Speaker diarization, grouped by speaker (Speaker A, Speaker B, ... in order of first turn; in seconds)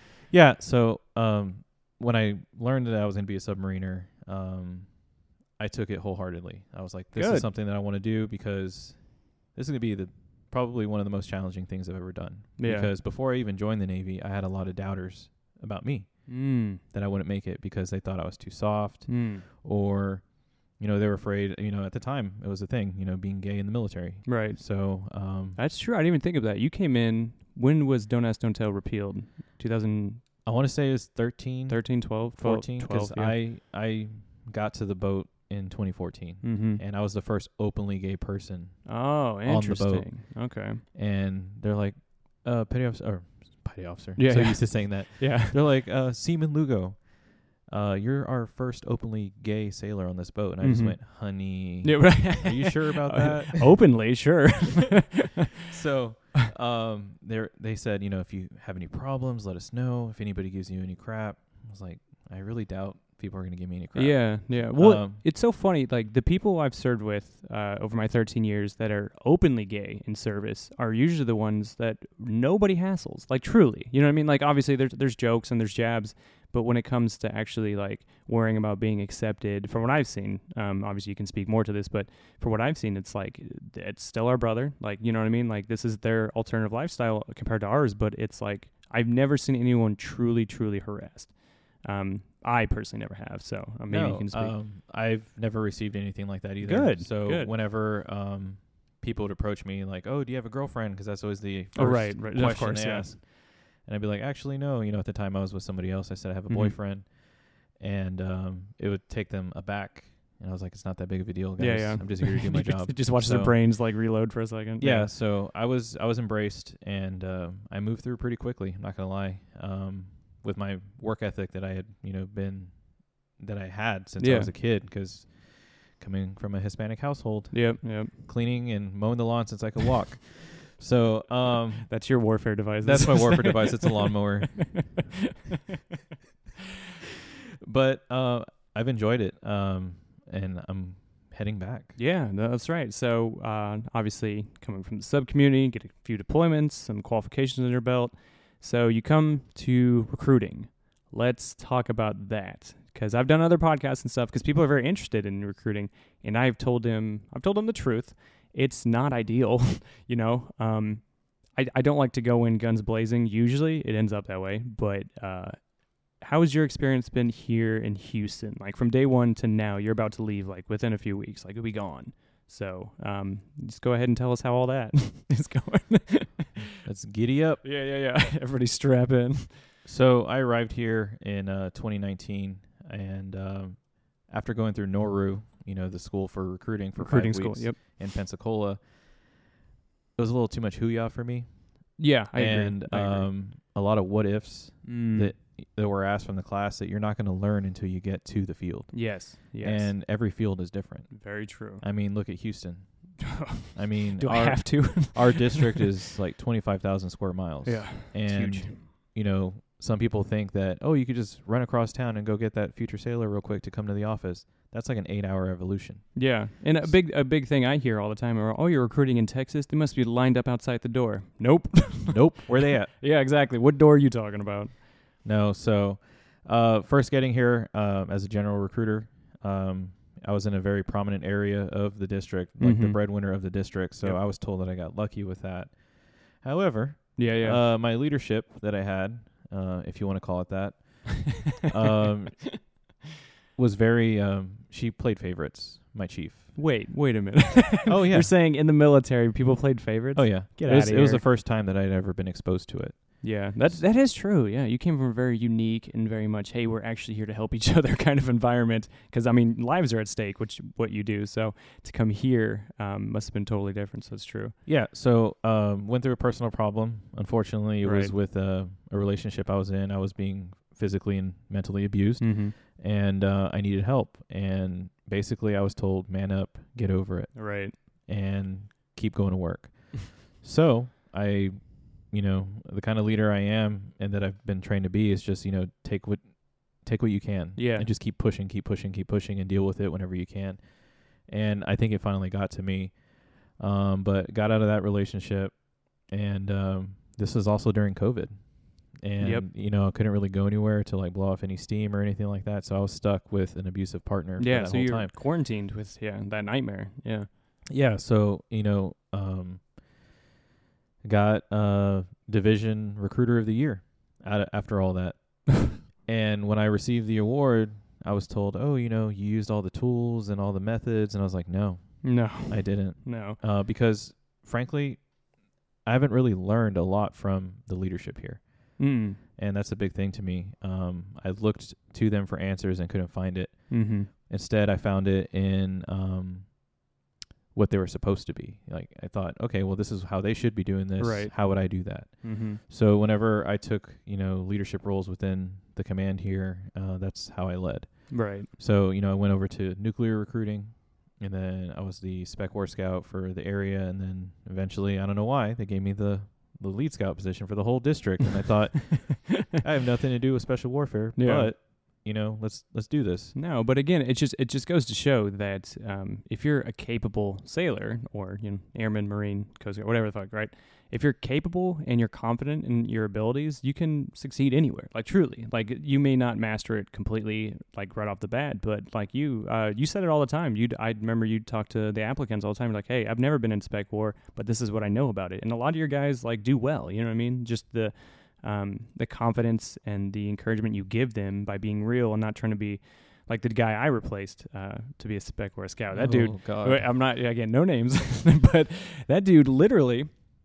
Speaker A: 0.2-25.6, 30.4-53.9, 55.6-65.2, 93.9-113.7, 114.8-132.1, 132.8-135.1, 137.6-142.0, 176.8-177.6, 179.8-189.4, 190.2-216.9, 222.1-222.9, 225.2-242.7, 243.6-246.6, 247.8-248.3, 250.1-253.8, 264.6-305.1, 307.7-309.8, 311.0-325.1, 325.8-336.7, 337.5-363.3, 395.9-396.9
Speaker B: 7.1-7.5, 12.6-12.9, 16.3-16.8, 19.1-19.4, 24.2-30.2, 31.7-33.4, 36.4-36.8, 38.9-40.8, 44.2-45.6, 50.6-55.4, 63.9-94.5, 96.6-97.5, 101.8-103.1, 106.5-106.8, 111.6-115.1, 124.2-124.5, 127.5-128.1, 131.9-134.6, 141.9-176.7, 177.6-179.6, 186.9-187.8, 192.0-193.3, 194.8-195.3, 198.9-199.9, 201.1-201.8, 203.4-205.8, 207.6-208.8, 216.1-224.8, 232.6-234.2, 237.2-237.6, 246.5-251.2, 253.2-264.5, 267.8-268.1, 272.2-272.5, 277.3-277.7, 287.6-287.9, 299.2-299.5, 304.4-307.3, 322.0-323.4, 328.8-329.2, 333.7-334.1, 341.0-342.6, 348.1-348.5, 361.1-361.5, 363.3-400.1